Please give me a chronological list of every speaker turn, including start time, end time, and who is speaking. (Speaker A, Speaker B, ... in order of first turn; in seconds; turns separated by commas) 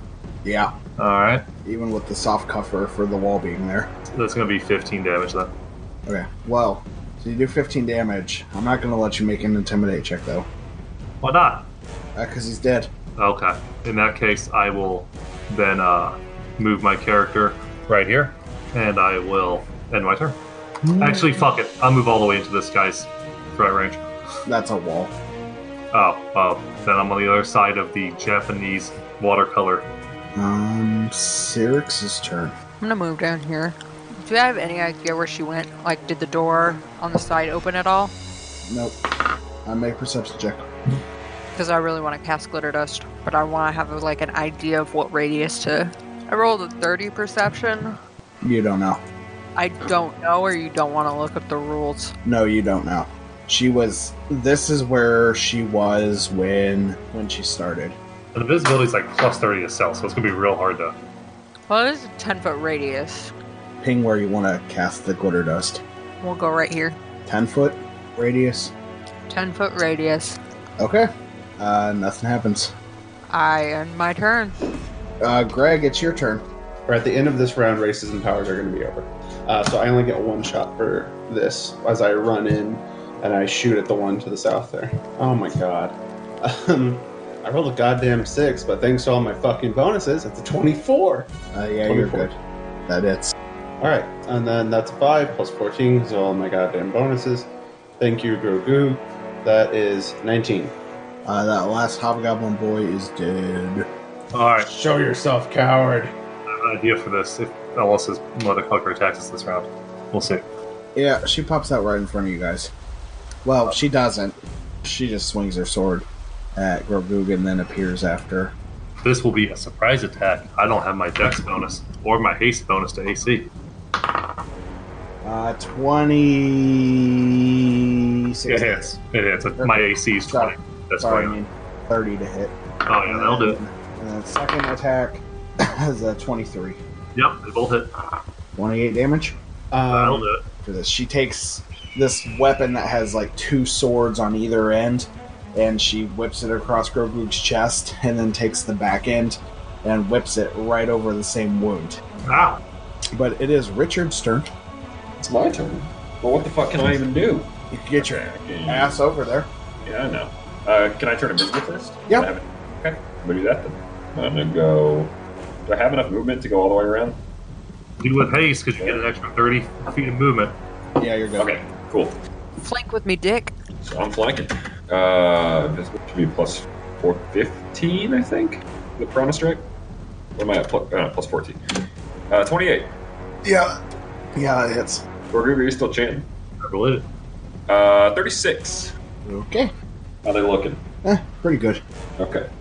Speaker A: 0.4-0.7, Speaker B: 1.0-1.4, Speaker A: 1.6-3.9, Speaker B: 4.1-5.5, Speaker A: 6.1-10.5, Speaker B: 11.2-11.7, Speaker A: 12.2-12.9, Speaker B: 13.2-20.4, Speaker A: 20.8-21.4, Speaker B: 21.0-24.1, Speaker A: 24.5-25.1, Speaker B: 25.9-29.9, Speaker A: 30.4-32.5, Speaker C: 32.8-38.1, Speaker A: 38.7-39.0, Speaker A: 39.6-40.7, Speaker C: 41.5-48.0, Speaker A: 48.4-49.0, Speaker C: 49.6-52.1, Speaker A: 52.2-58.0, Speaker B: 58.3-61.0, Speaker C: 61.7-63.3, Speaker A: 63.8-65.8, Speaker C: 66.2-67.0, Speaker A: 67.3-68.7, Speaker C: 69.3-70.4, Speaker A: 70.8-71.1, Speaker A: 71.6-72.7, Speaker C: 73.3-74.6, Speaker A: 75.2-76.5, Speaker D: 76.9-91.3, Speaker A: 91.5-92.3, Speaker D: 91.9-92.3, Speaker A: 92.9-93.3, Speaker D: 93.8-100.8, Speaker A: 101.2-103.9, Speaker B: 104.3-104.7, Speaker D: 104.6-106.2, Speaker B: 106.5-110.5, Speaker A: 111.0-112.7, Speaker A: 113.5-118.5, Speaker B: 119.0-123.5, Speaker A: 125.2-127.1, Speaker A: 128.3-128.9, Speaker B: 128.5-131.4, Speaker A: 129.6-136.8, Speaker B: 132.9-133.6, Speaker B: 137.2-137.9, Speaker A: 138.6-139.4, Speaker D: 139.7-140.3, Speaker B: 139.9-140.4, Speaker A: 140.6-152.0, Speaker B: 152.3-152.6, Speaker A: 153.1-154.5, Speaker E: 155.2-159.0, Speaker A: 157.7-159.5, Speaker E: 159.8-165.1, Speaker E: 165.7-167.2, Speaker B: 168.0-170.6, Speaker A: 171.0-171.5, Speaker E: 171.4-172.2, Speaker C: 172.6-173.5, Speaker E: 173.8-179.7, Speaker E: 180.4-181.6, Speaker E: 182.3-182.9, Speaker A: 183.4-183.7, Speaker A: 184.3-185.0, Speaker E: 185.3-186.3, Speaker B: 186.6-187.1, Speaker E: 187.7-188.9, Speaker A: 189.2-189.7, Speaker E: 190.2-190.8, Speaker A: 191.0-191.8, Speaker E: 192.2-192.5